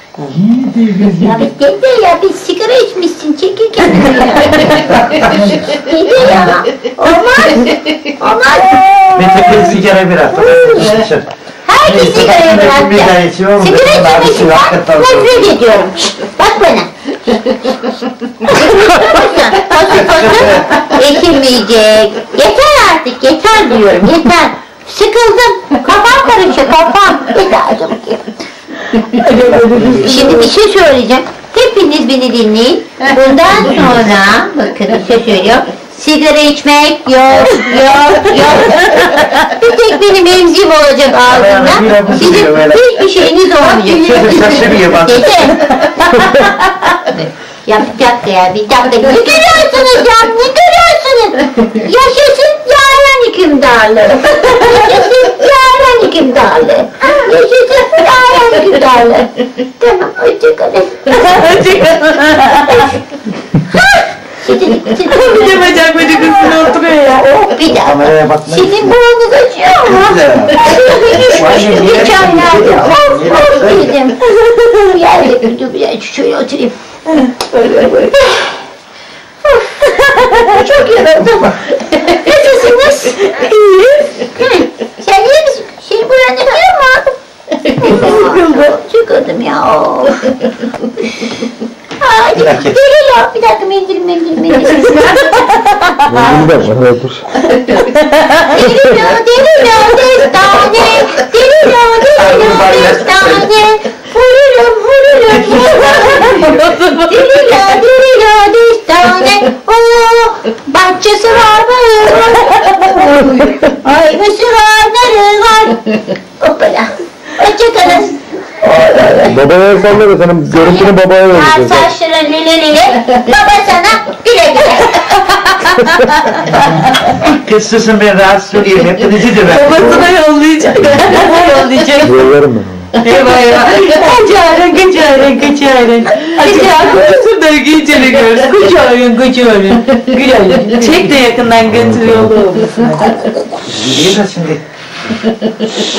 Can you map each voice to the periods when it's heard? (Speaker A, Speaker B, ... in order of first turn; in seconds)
Speaker A: 0.6-1.1, 96.1-97.2, 119.2-121.9, 132.0-132.9, 141.8-142.2
Speaker B: 1.1-9.7, 10.3-10.9, 11.7-17.8, 18.4-28.3, 30.0-45.9, 47.1-61.1, 63.6-76.8, 77.5-78.5, 79.5-83.2, 84.2-90.3, 92.0-95.5, 98.4-106.4, 107.0-119.4, 120.5-125.7, 136.4-136.7
Speaker C: 4.9-5.5, 9.1-11.3, 11.8-15.5, 20.0-20.8, 41.2-42.8, 43.8-45.5, 67.7-69.0, 69.9-74.0, 92.4-92.8, 102.1-103.5, 105.2-106.8, 127.2-129.8, 143.7-144.6
Speaker D: 29.1-30.4, 38.7-39.2, 46.2-46.5, 61.1-63.0, 65.1-67.2, 77.1-78.1, 83.2-84.1, 87.8-88.4, 95.0-95.4, 96.1-96.5, 97.7-98.4, 105.7-107.1, 125.8-126.2, 129.5-132.2, 133.0-143.4